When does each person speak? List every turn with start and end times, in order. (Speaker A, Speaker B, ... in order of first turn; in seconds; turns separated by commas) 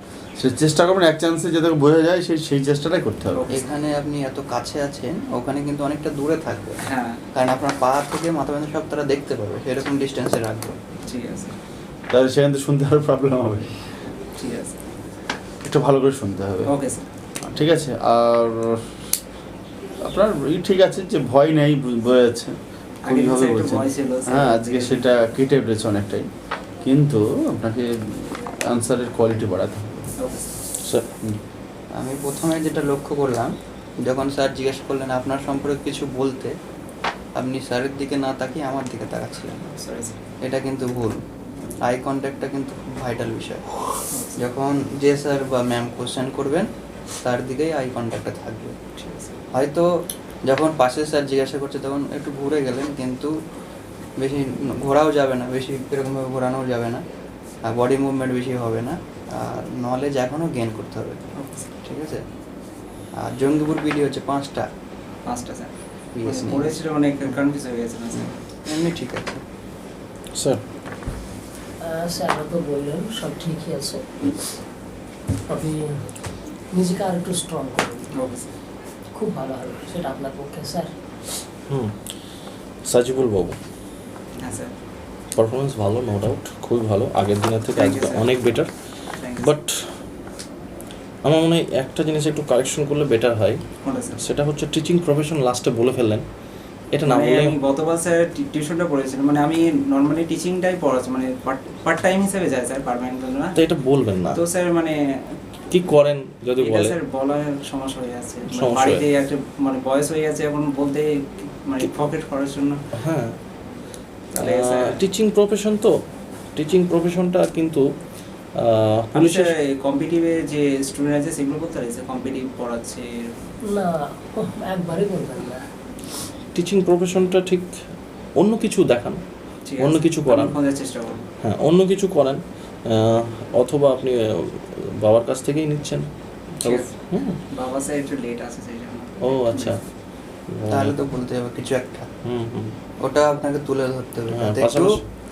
Speaker A: 0.3-3.4, Speaker B: 3.3-3.7, Speaker C: 3.5-6.8, Speaker B: 6.8-7.2, Speaker C: 7.3-10.7, Speaker B: 11.0-11.5, Speaker A: 12.1-13.8, Speaker B: 14.4-14.8, Speaker A: 15.6-16.7, Speaker B: 16.7-17.1, Speaker A: 17.5-19.0, Speaker A: 20.0-26.3, Speaker B: 23.0-25.1, Speaker A: 26.8-30.1, Speaker B: 30.2-30.5, Speaker D: 30.8-31.1, Speaker C: 31.9-36.5, Speaker C: 37.4-39.7, Speaker B: 39.7-40.2, Speaker C: 40.4-41.2, Speaker C: 41.8-43.8, Speaker B: 44.1-44.4, Speaker C: 44.4-46.7, Speaker C: 47.2-48.8, Speaker B: 49.0-49.4, Speaker C: 49.5-49.9, Speaker C: 50.5-53.3, Speaker C: 54.2-57.0, Speaker C: 57.6-61.2, Speaker B: 61.4-61.7, Speaker C: 61.8-62.2, Speaker C: 63.2-64.7, Speaker B: 65.2-68.4, Speaker C: 66.1-67.4, Speaker C: 68.1-69.4, Speaker D: 70.3-70.6, Speaker E: 71.8-74.6, Speaker E: 75.5-78.1, Speaker B: 78.2-78.5, Speaker E: 79.1-80.9, Speaker D: 81.7-82.1, Speaker D: 82.8-83.5, Speaker B: 84.4-84.7, Speaker D: 85.3-88.7, Speaker B: 87.8-88.3, Speaker B: 89.2-89.5, Speaker D: 89.4-89.9, Speaker D: 91.2-93.6, Speaker B: 93.8-94.2, Speaker D: 94.2-96.2, Speaker D: 96.9-97.6, Speaker B: 97.0-105.4, Speaker D: 103.5-104.4, Speaker D: 105.7-107.0, Speaker B: 106.6-112.8, Speaker D: 108.5-109.1, Speaker D: 112.9-113.4, Speaker B: 114.3-115.0, Speaker D: 114.4-115.9, Speaker D: 116.5-117.9, Speaker D: 118.6-119.5, Speaker B: 119.1-123.3, Speaker E: 123.7-125.7, Speaker D: 126.5-127.7, Speaker D: 128.4-129.2, Speaker B: 129.7-131.3, Speaker D: 129.8-130.6, Speaker D: 131.4-136.1, Speaker B: 136.6-137.0, Speaker D: 136.6-137.4, Speaker B: 137.5-139.7, Speaker D: 139.2-139.8, Speaker D: 140.5-140.9, Speaker C: 140.6-142.1, Speaker D: 142.2-142.8, Speaker C: 143.0-145.0, Speaker D: 144.3-145.0